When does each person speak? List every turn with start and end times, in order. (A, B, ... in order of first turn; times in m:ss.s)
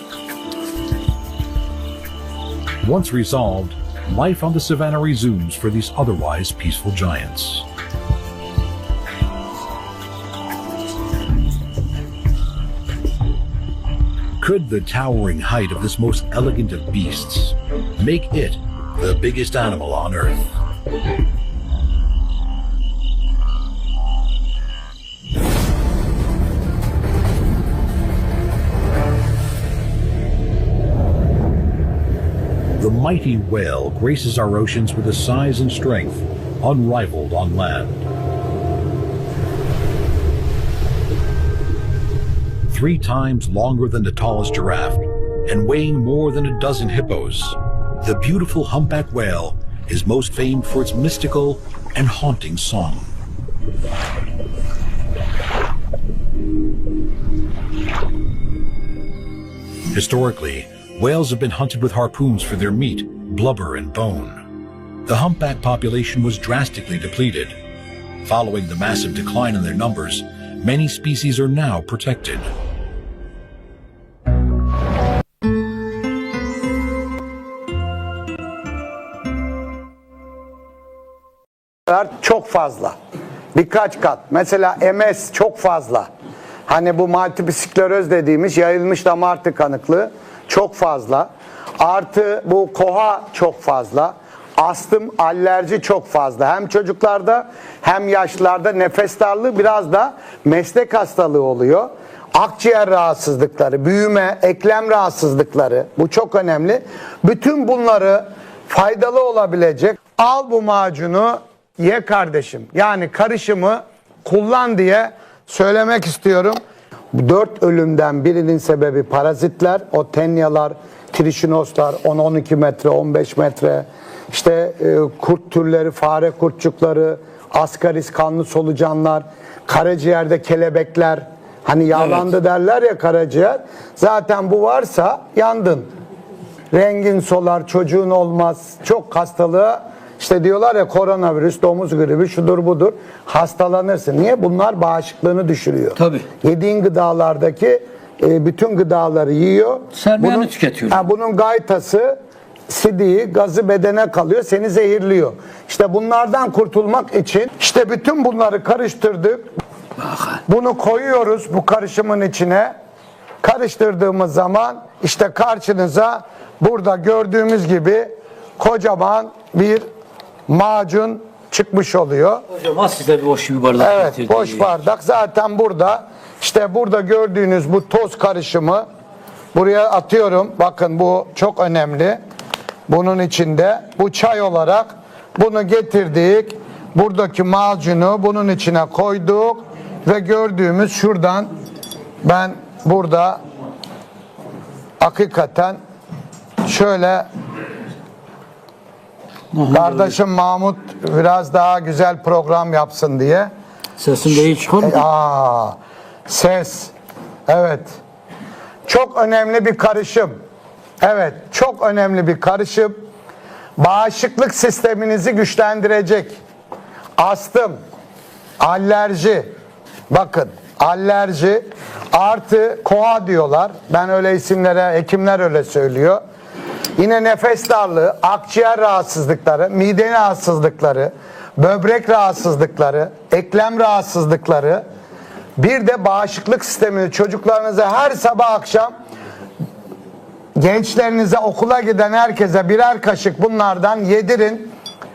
0:02.8-0:07.7 A
0:14.4-0:20.4 A
0:32.8-0:38.0 A
0:42.7-0:53.1 A
0:59.9-1:04.5 A
1:05.0-1:07.6 A
1:08.2-1:12.5 A
1:21.9-1:23.0 B
1:23.5-1:26.1 B
1:26.7-1:56.6 B
1:57.1-2:15.9 B
2:16.7-2:32.2 B
2:26.0-2:26.2 C
2:29.9-2:31.0 C
2:32.7-2:39.5 B
2:40.0-2:40.4 C
2:40.5-2:42.7 B
2:43.4-2:49.9 B
2:50.5-2:52.4 B
2:52.5-2:54.8 C
2:53.8-2:58.9 B
2:59.5-3:02.2 B
3:02.9-3:11.5 B
3:12.2-3:13.4 B
3:15.0-3:15.8 B
3:16.6-3:17.3 B
3:19.5-3:20.2 C
3:19.7-3:23.5 B
3:24.0-3:25.0 C
3:24.8-3:26.9 B
3:27.5-3:28.0 B
3:28.9-3:30.4 B
3:31.0-3:33.1 B
3:33.8-3:36.4 B
3:37.2-3:37.8 B
3:38.6-3:39.5 B
3:40.1-3:46.2 B
3:47.0-3:54.8 B
3:55.6-3:58.9 B
4:00.6-4:04.7 B